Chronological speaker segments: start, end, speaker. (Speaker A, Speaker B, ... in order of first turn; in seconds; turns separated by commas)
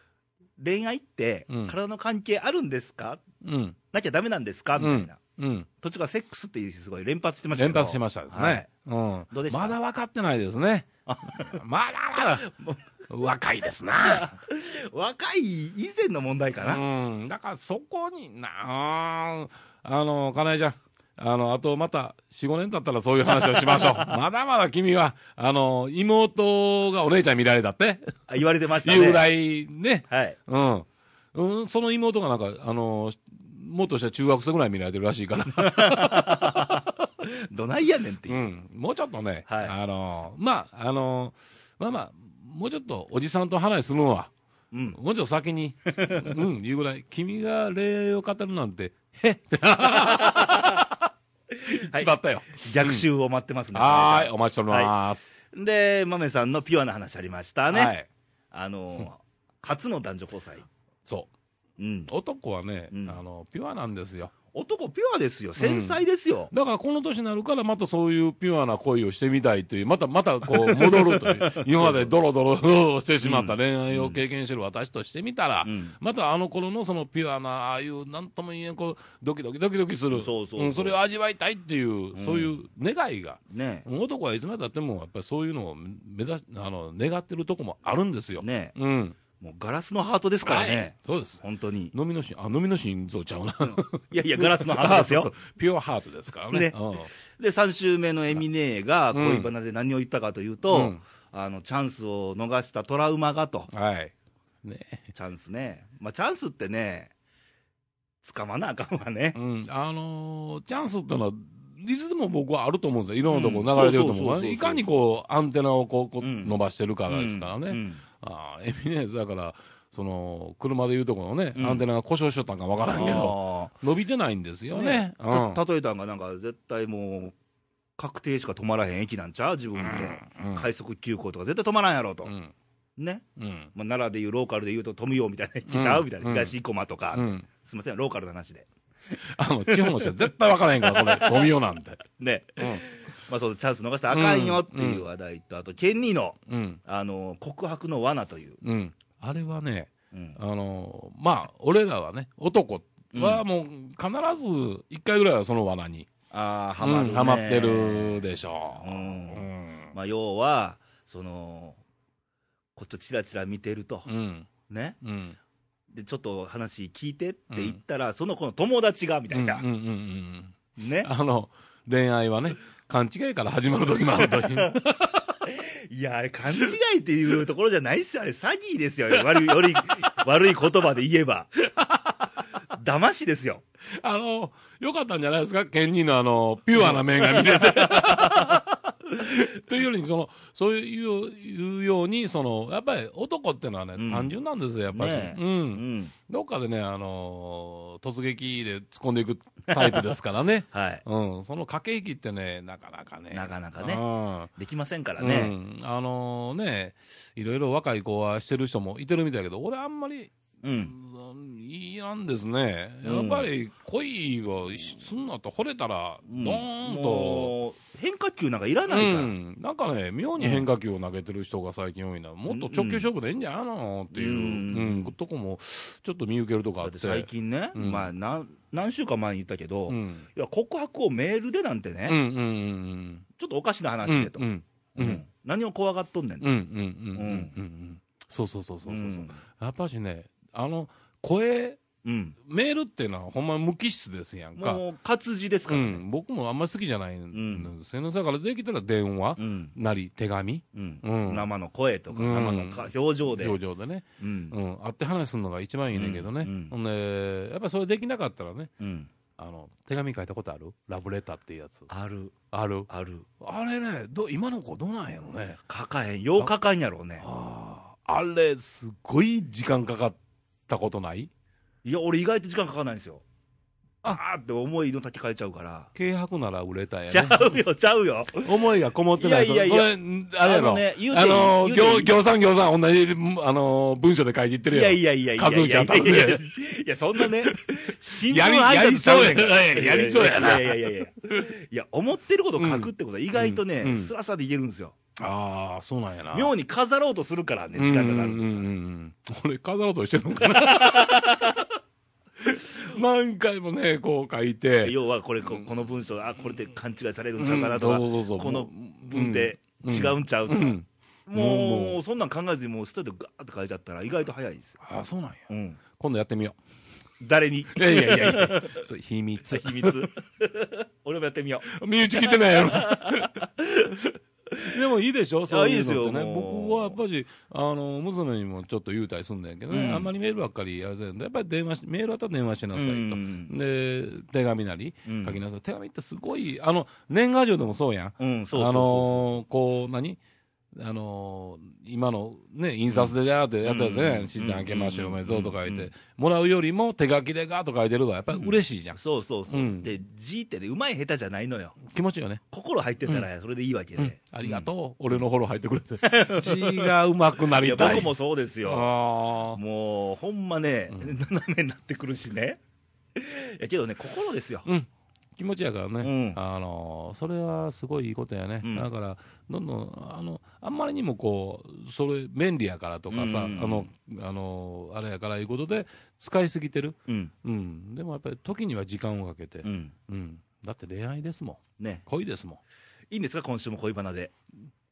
Speaker A: 0.6-3.2, Speaker B: 1.5-1.8, Speaker B: 3.4-3.8, Speaker A: 3.9-5.2, Speaker B: 4.8-5.7, Speaker A: 5.8-8.7, Speaker B: 7.6-12.5, Speaker A: 9.3-9.8, Speaker A: 11.1-11.6, Speaker A: 12.2-12.9, Speaker B: 13.1-14.3, Speaker A: 14.1-16.8, Speaker B: 16.6-28.2, Speaker A: 23.4-24.1, Speaker A: 28.3-29.3, Speaker B: 28.8-36.9, Speaker A: 30.1-30.4, Speaker A: 35.6-38.4, Speaker B: 38.3-44.3, Speaker A: 39.5-39.8, Speaker A: 44.7-45.0, Speaker B: 44.9-51.1, Speaker A: 45.9-46.4, Speaker A: 49.9-50.9, Speaker A: 51.5-54.9, Speaker B: 51.6-53.0, Speaker B: 53.7-55.3, Speaker A: 55.5-57.9, Speaker B: 57.7-58.1, Speaker A: 58.5-60.7, Speaker A: 61.8-62.1, Speaker B: 62.1-64.3, Speaker A: 62.9-63.2, Speaker A: 64.5-66.5, Speaker B: 65.6-89.2, Speaker A: 70.5-72.1, Speaker A: 73.2-74.2, Speaker A: 75.6-76.0, Speaker A: 80.1-81.0, Speaker A: 82.1-82.5, Speaker A: 83.5-83.9, Speaker A: 88.4-88.8, Speaker A: 89.4-91.9, Speaker B: 90.4-97.1, Speaker A: 93.6-95.3, Speaker A: 96.5-103.7, Speaker B: 99.1-99.5, Speaker B: 100.7-101.0, Speaker B: 103.7-104.1, Speaker B: 104.6-105.1, Speaker A: 105.1-107.1, Speaker A: 108.2-109.4, Speaker B: 109.3-125.6, Speaker A: 113.3-114.8, Speaker A: 116.2-118.0, Speaker A: 121.5-121.8, Speaker A: 122.9-123.7, Speaker A: 124.7-127.3, Speaker A: 128.0-132.3, Speaker B: 129.8-130.7, Speaker B: 132.2-132.5, Speaker A: 133.0-138.7, Speaker B: 133.4-133.7, Speaker B: 135.7-136.5, Speaker B: 137.1-137.5, Speaker B: 139.3-142.0, Speaker A: 139.7-140.3, Speaker A: 140.8-141.5, Speaker A: 142.1-148.6, Speaker B: 142.6-142.8, Speaker B: 144.1-145.1, Speaker B: 146.5-146.8, Speaker B: 148.6-156.1, Speaker A: 150.1-150.4, Speaker A: 153.1-153.4, Speaker A: 156.3-161.8, Speaker B: 156.8-159.9, Speaker A: 162.8-164.1, Speaker B: 164.1-164.5, Speaker A: 164.7-165.0, Speaker B: 165.0-165.4, Speaker A: 165.9-169.7, Speaker B: 167.5-167.8, Speaker B: 169.3-175.3, Speaker A: 170.8-171.1, Speaker A: 174.2-174.8, Speaker A: 175.3-181.6, Speaker B: 179.2-179.7, Speaker A: 182.7-183.6, Speaker B: 184.0-204.5, Speaker A: 186.8-188.6, Speaker A: 194.0-194.3, Speaker A: 194.9-196.1, Speaker A: 199.7-200.1, Speaker A: 200.7-201.0, Speaker A: 203.3-204.0, Speaker A: 204.6-205.5, Speaker B: 205.2-210.3, Speaker A: 210.6-210.9, Speaker B: 210.8-217.5, Speaker A: 213.0-213.5, Speaker A: 216.3-219.3, Speaker B: 218.9-228.1, Speaker A: 220.4-220.7, Speaker A: 222.5-223.1, Speaker A: 224.1-225.1, Speaker A: 226.8-232.2, Speaker B: 229.9-230.3, Speaker B: 232.1-233.2, Speaker A: 233.4-236.5, Speaker B: 234.1-235.2, Speaker B: 236.4-241.8, Speaker A: 237.1-237.5, Speaker A: 238.9-239.4, Speaker A: 242.0-242.4, Speaker B: 242.4-244.8, Speaker A: 244.6-246.0, Speaker B: 245.7-251.5, Speaker A: 247.3-247.7, Speaker A: 249.4-249.7, Speaker A: 250.7-253.6, Speaker B: 252.1-258.7, Speaker A: 254.2-254.6, Speaker A: 255.9-256.7, Speaker A: 258.8-259.1, Speaker B: 259.4-261.9, Speaker A: 261.9-262.4, Speaker B: 262.5-262.9, Speaker A: 262.9-263.3, Speaker B: 263.4-265.6, Speaker A: 265.7-267.3, Speaker B: 267.2-271.3, Speaker A: 271.8-273.2, Speaker A: 274.1-275.9, Speaker B: 275.9-277.6, Speaker A: 277.1-278.5, Speaker B: 278.4-286.4, Speaker A: 279.2-282.1, Speaker A: 284.7-295.0, Speaker B: 287.2-287.7, Speaker B: 288.3-290.9, Speaker B: 292.6-294.1, Speaker B: 295.2-296.5, Speaker A: 296.3-298.7, Speaker B: 297.8-301.6, Speaker A: 300.4-301.6, Speaker B: 302.4-305.0, Speaker A: 304.8-314.8, Speaker B: 307.4-312.0, Speaker B: 314.8-316.6, Speaker A: 315.5-315.8, Speaker A: 317.2-318.9, Speaker B: 317.7-320.1, Speaker A: 319.5-324.8, Speaker B: 321.7-323.5, Speaker B: 324.6-340.2, Speaker A: 325.5-327.0, Speaker A: 329.7-330.1, Speaker A: 332.7-333.5, Speaker A: 335.1-335.4, Speaker A: 338.2-339.4, Speaker B: 340.7-349.9, Speaker A: 342.9-345.9, Speaker A: 348.3-351.8, Speaker B: 351.8-352.4, Speaker A: 352.5-354.7, Speaker B: 354.0-358.1, Speaker A: 356.0-356.9, Speaker A: 357.6-358.9, Speaker B: 358.6-359.6, Speaker A: 359.5-362.6, Speaker A: 363.2-364.7, Speaker B: 364.6-382.6, Speaker A: 366.0-366.4, Speaker A: 368.6-368.9, Speaker A: 373.1-373.9, Speaker A: 379.6-379.9, Speaker A: 381.8-382.1, Speaker A: 383.1-384.3